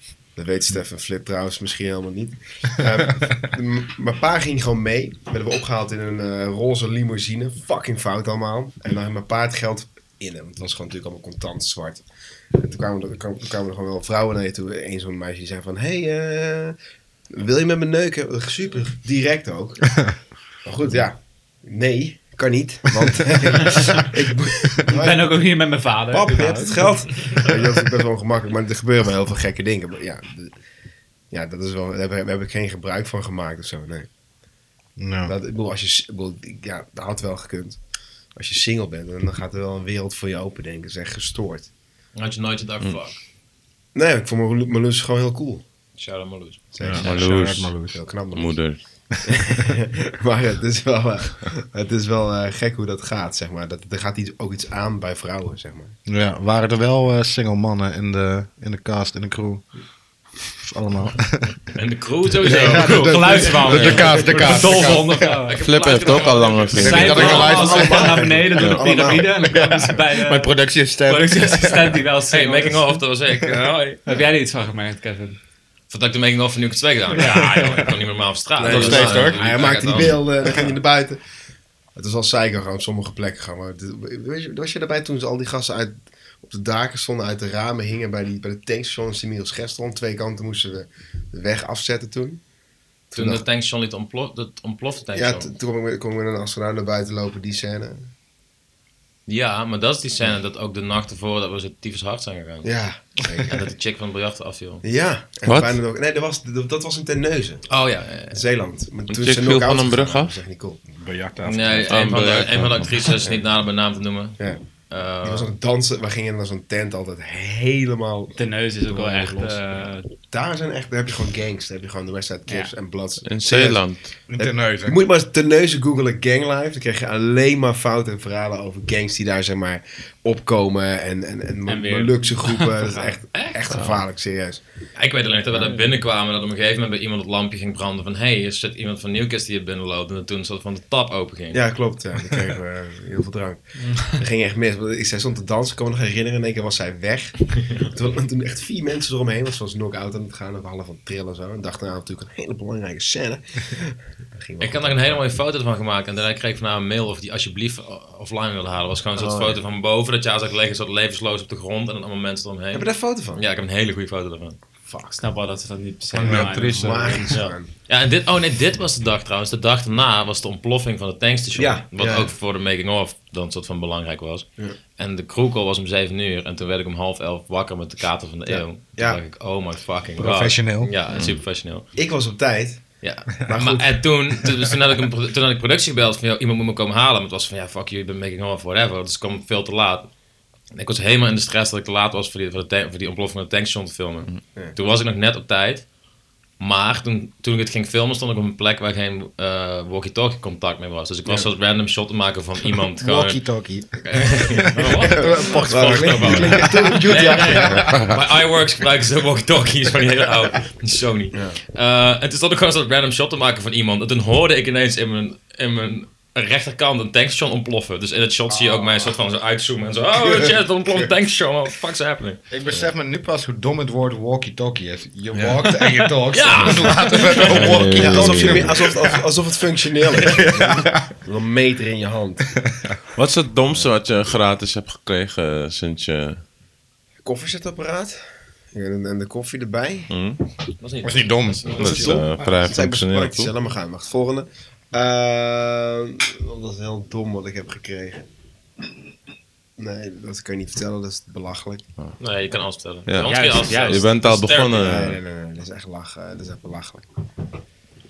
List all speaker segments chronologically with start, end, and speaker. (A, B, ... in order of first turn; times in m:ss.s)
0:00.3-0:16.8 A
0:17.3-0:25.5 A
0:24.9-0:27.4 B
0:26.1-0:30.6 A
0:31.3-0:34.1 A
0:35.0-0:35.3 C
0:35.2-0:37.8 A
0:38.3-0:41.7 A
0:42.1-0:43.2 D
0:43.9-0:45.6 A
0:46.0-0:47.2 D
0:46.7-0:55.9 A
0:46.8-0:48.0 C
0:47.0-0:47.8 E
0:48.3-0:48.8 E
0:56.0-0:59.7 C
1:00.6-1:01.7 C
1:01.6-1:07.8 D
1:02.4-1:05.5 C
1:02.6-1:05.6 B
1:05.6-1:07.6 E
1:06.8-1:08.5 C
1:06.8-1:13.0 B
1:07.3-1:09.5 A
1:08.6-1:09.2 E
1:09.4-1:12.0 C
1:12.3-1:14.0 D
1:13.6-1:15.4 B
1:15.9-1:20.3 D
1:17.1-1:17.9 B
1:18.6-1:21.2 A
1:18.6-1:20.0 C
1:21.9-1:32.4 A
1:33.1-1:33.4 A
1:33.1-1:35.5 D
1:35.1-1:38.1 A
1:39.3-1:42.7 D
1:42.6-1:43.6 A
1:43.5-1:44.8 D
1:44.8-1:50.8 A
1:45.4-1:45.8 E
1:47.7-1:48.4 D
1:49.1-1:50.4 E
1:51.0-1:52.2 C
1:51.4-1:55.5 D
1:51.9-1:53.0 E
1:55.2-2:14.6 A
1:58.4-2:00.1 B
2:02.5-2:02.7 B
2:03.2-2:04.2 E
2:04.3-2:05.0 C
2:11.7-2:13.2 B
2:13.3-2:13.6 D
2:13.7-2:14.0 E
2:15.0-2:21.6 D
2:21.5-2:35.2 A
2:23.9-2:24.2 B
2:27.6-2:27.9 D
2:34.6-2:44.6 D
2:39.1-2:39.6 A
2:42.7-2:43.4 A
2:44.9-2:45.2 A
2:45.1-2:47.2 B
2:46.2-2:47.2 E
2:46.2-2:47.2 C
2:46.3-2:47.7 A
2:47.3-3:01.9 D
2:51.6-2:52.3 A
2:58.5-2:59.2 A
3:00.2-3:00.9 C
3:01.1-3:01.4 E
3:01.9-3:04.0 A
3:03.0-3:10.1 D
3:10.7-3:15.9 D
3:16.6-3:42.4 D
3:21.3-3:21.5 A
3:23.0-3:28.0 C
3:25.1-3:28.0 A
3:31.3-3:31.6 A
3:38.5-3:38.9 C
3:40.2-3:41.1 A
3:42.5-3:49.2 C
3:45.3-3:45.6 A
3:46.3-3:48.0 D
3:47.4-3:48.8 E
3:47.9-3:52.5 A
3:50.1-3:51.1 C
3:53.1-3:56.4 E
3:57.2-3:58.2 A
3:58.7-4:00.1 A
4:00.1-4:00.4 E
4:00.8-4:02.2 D
4:01.0-4:02.2 C
4:01.8-4:03.5 E
4:01.8-4:08.2 A
4:09.8-4:11.8 A
4:12.2-4:15.1 D
4:13.1-4:15.2 E
4:13.2-4:14.1 B
4:14.8-4:17.0 A